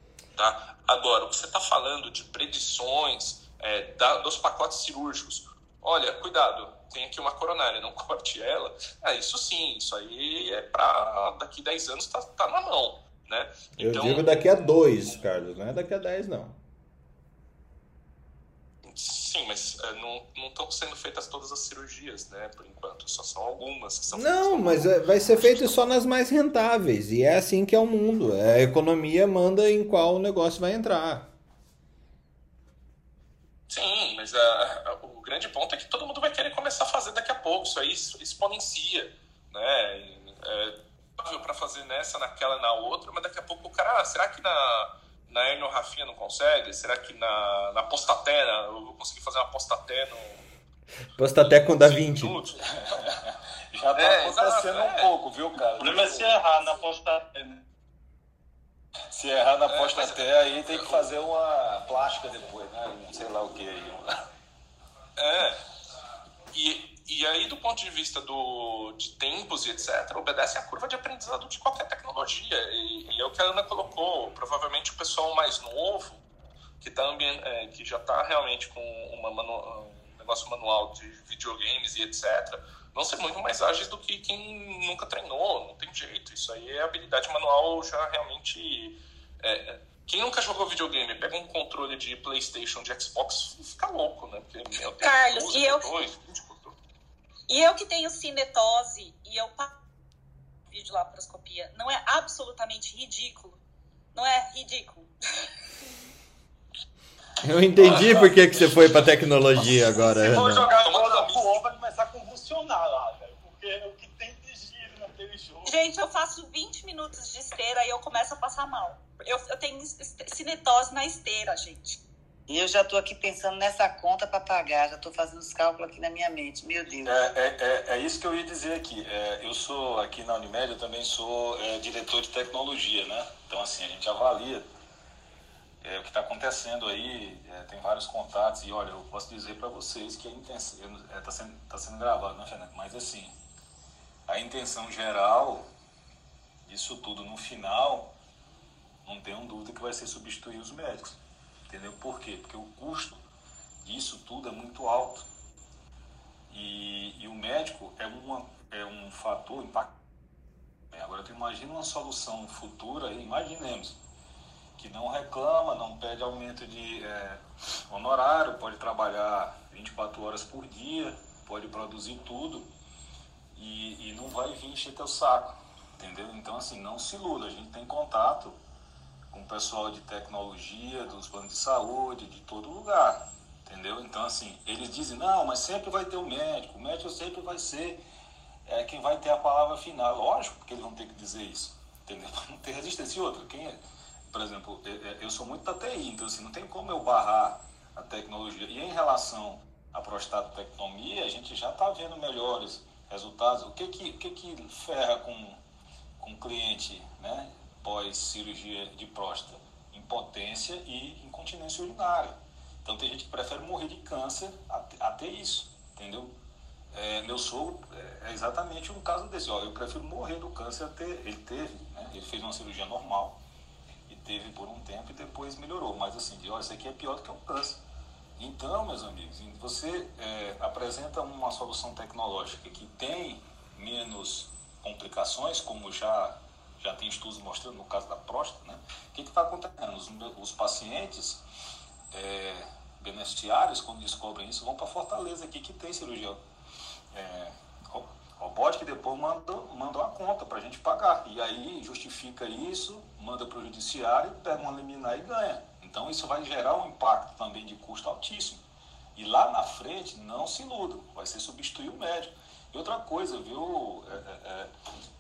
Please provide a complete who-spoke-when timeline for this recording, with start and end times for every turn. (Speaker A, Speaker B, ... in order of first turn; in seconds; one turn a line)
Speaker A: 0.4-14.5
Speaker B: 13.8-16.6
Speaker A: 18.8-25.9
Speaker B: 24.1-31.3
Speaker A: 33.7-50.4
Speaker B: 51.2-52.4
Speaker A: 51.4-52.6
Speaker C: 52.7-56.4
Speaker A: 54.0-55.1
Speaker D: 55.8-57.6
Speaker C: 59.1-64.1
Speaker A: 59.7-61.1
Speaker A: 65.2-65.6
Speaker A: 66.5-76.2
Speaker A: 76.8-96.8
Speaker E: 95.0-95.9
Speaker E: 97.5-99.7
Speaker E: 100.7-103.6
Speaker E: 104.1-105.1
Speaker B: 107.4-110.7
Speaker D: 109.7-115.7
Speaker A: 110.6-111.5
Speaker E: 115.7-122.0
Speaker F: 122.5-127.2
Speaker C: 127.0-134.7
Speaker C: 135.8-143.3
Speaker C: 144.3-145.7
Speaker C: 146.7-148.1
Speaker C: 149.1-151.2
Speaker C: 151.7-153.2
Speaker C: 153.8-155.3
Speaker C: 156.5-159.9
Speaker C: 160.9-164.0
Speaker C: 164.8-172.7
Speaker C: 173.6-178.6
Speaker C: 179.3-188.0
Speaker C: 188.7-193.8
Speaker C: 194.3-205.6
Speaker C: 206.2-216.4
Speaker C: 216.9-223.4
Speaker C: 224.1-227.8
Speaker C: 228.4-241.4
Speaker C: 242.1-246.4
Speaker C: 247.1-258.6
Speaker C: 259.2-264.7